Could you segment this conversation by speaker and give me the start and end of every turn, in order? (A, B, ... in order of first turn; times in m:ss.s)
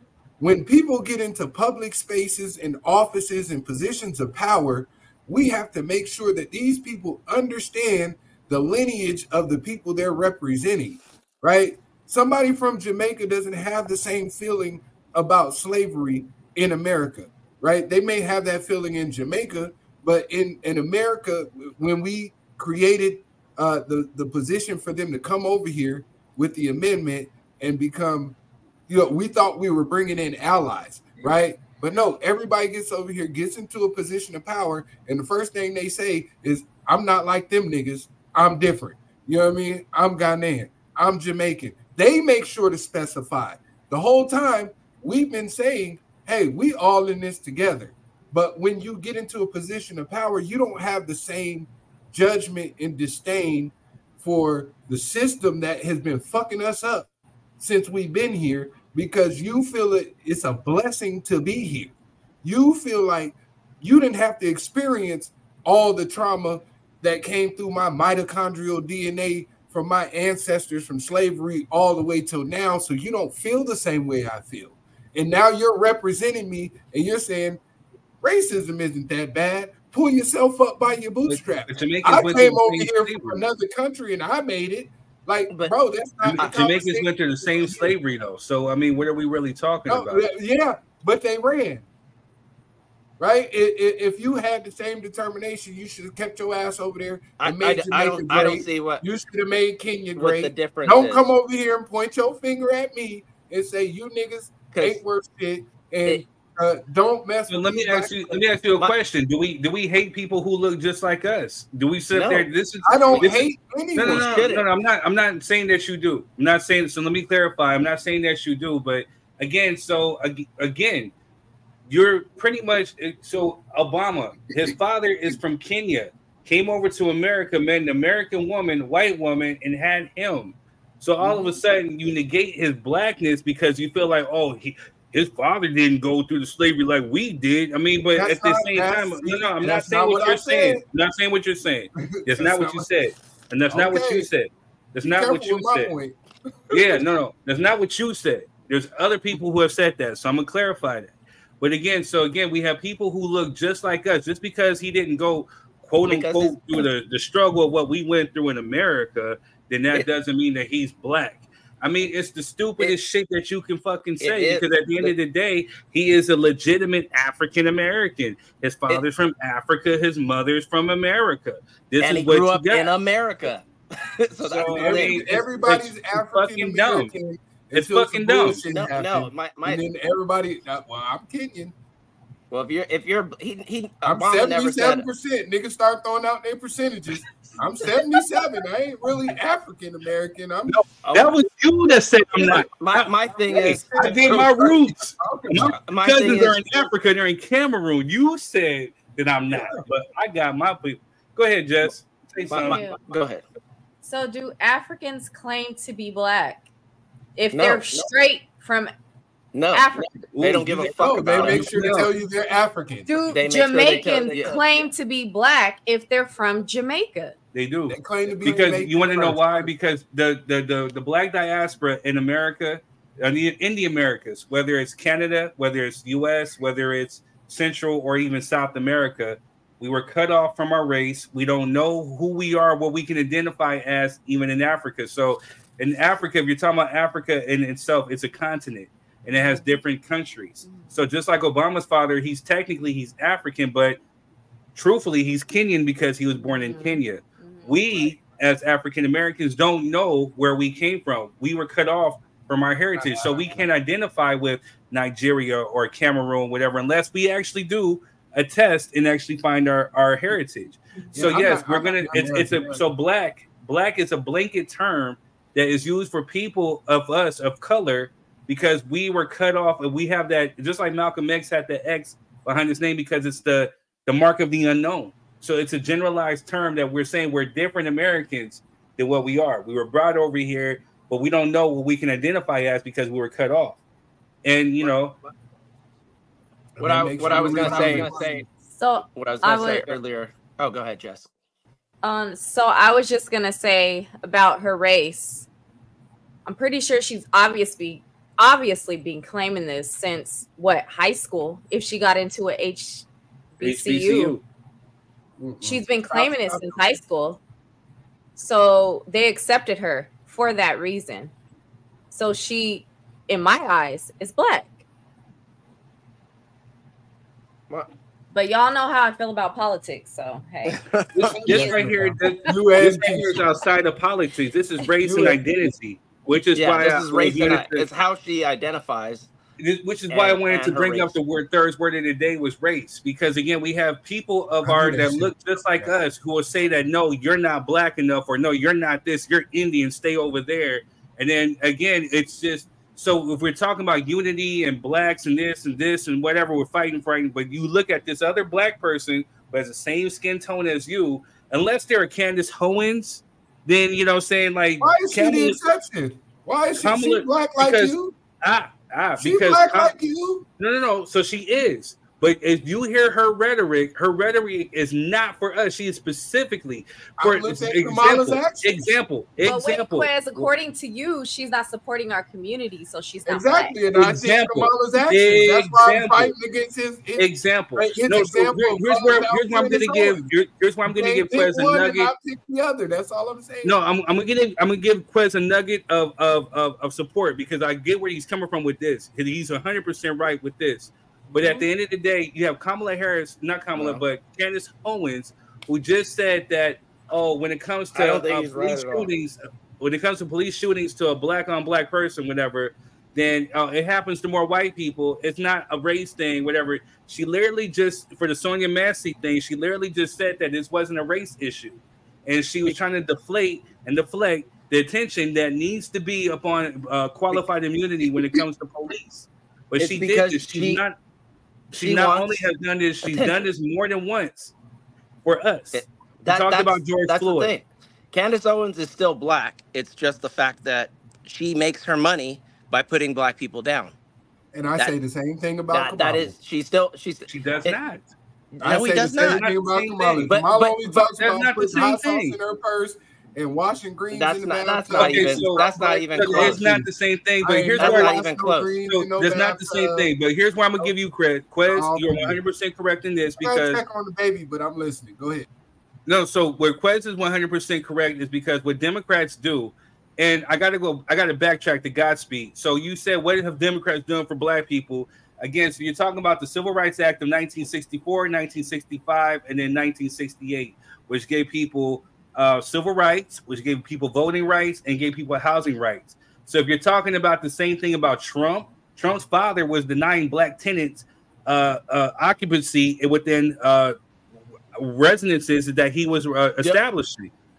0:00.4-0:28.4 A
0:28.9-1:17.6 A
1:18.2-1:27.9 A
1:21.3-1:23.4 B
1:26.2-1:30.3 B
1:29.9-1:31.8 A
1:33.2-1:48.4 A
1:37.4-1:39.0 C
1:40.2-1:41.3 C
1:44.7-1:45.0 C
1:47.5-2:01.1 B
1:52.1-1:52.5 C
1:52.8-1:54.4 A
1:54.0-1:54.7 C
2:01.9-2:25.9 B
2:18.1-2:20.8 A
2:21.9-2:22.9 A
2:23.7-2:24.3 A
2:25.0-2:27.0 A
2:26.7-2:52.9 B
2:36.0-2:36.8 C
2:44.2-2:45.1 C
2:52.0-2:55.4 C
2:54.4-2:57.1 B
2:54.6-3:01.7 A
2:57.7-2:58.6 B
2:58.7-2:59.8 C
3:02.5-3:05.0 C
3:04.0-3:10.8 A
3:10.7-3:22.8 B
3:11.0-3:11.4 C
3:12.4-3:14.5 C
3:13.7-3:15.8 A
3:15.5-3:16.9 C
3:19.5-3:19.9 A
3:22.5-3:23.4 C
3:22.7-3:23.0 D
3:24.0-3:26.6 D
3:27.4-3:28.9 D
3:27.5-3:28.1 C
3:29.5-3:31.7 C
3:29.7-3:30.3 D
3:30.3-3:32.1 B
3:31.0-3:33.4 A
3:33.0-3:37.4 D
3:33.3-3:34.9 C
3:37.5-4:04.0 B
3:37.9-3:39.7 A
3:59.3-3:59.8 D
4:00.6-4:01.0 D
4:04.7-4:43.8 B
4:06.4-4:08.1 D
4:13.0-4:13.6 A
4:21.1-4:22.8 A
4:44.4-4:45.2 B
4:46.8-4:48.4 A
4:46.8-4:48.5 C
4:47.6-4:48.0 D
4:48.7-4:50.0 D
4:49.0-4:51.3 C
4:52.0-4:55.5 D
4:56.4-5:03.0 D
5:03.6-5:04.4 D
5:03.6-5:04.4 B
5:05.4-5:06.8 A
5:05.6-5:07.4 D
5:08.4-5:11.3 D
5:12.1-5:14.7 D
5:18.3-5:20.8 D
5:20.6-5:21.4 C
5:21.1-5:27.9 B
5:21.4-5:23.4 A
5:21.5-5:21.8 D
5:25.0-5:25.4 A
5:26.5-5:29.3 C
5:29.6-5:55.6 B
5:30.1-5:31.1 C
5:34.6-5:35.9 A
5:54.8-5:58.2 A
5:56.8-5:59.9 B
5:59.2-6:00.4 A
6:00.6-6:10.5 B
6:07.2-6:09.0 A
6:09.4-6:13.8 D
6:13.2-6:20.3 A
6:13.9-6:16.3 B
6:17.2-6:22.1 B
6:20.8-6:23.8 A
6:23.6-7:00.9 B
6:31.4-6:31.6 D
6:33.7-6:34.0 C
6:37.9-6:39.1 C
6:59.8-7:00.8 C
7:01.7-7:04.5 B
7:01.8-7:02.4 C
7:03.0-7:03.4 C
7:05.2-7:07.5 B
7:05.7-7:14.0 C
7:14.5-7:16.3 A
7:15.7-7:17.8 C
7:17.3-7:18.1 B
7:18.5-7:19.4 C
7:18.6-7:26.9 A
7:19.2-7:20.4 B
7:20.2-7:20.9 C
7:20.9-7:22.4 B
7:24.1-7:26.8 C
7:24.9-7:28.2 B
7:27.4-7:30.1 A
7:27.8-7:28.7 C
7:28.8-7:33.8 B
7:31.7-7:32.4 A
7:33.4-7:35.5 A
7:36.0-8:03.9 B
8:04.7-8:07.3 B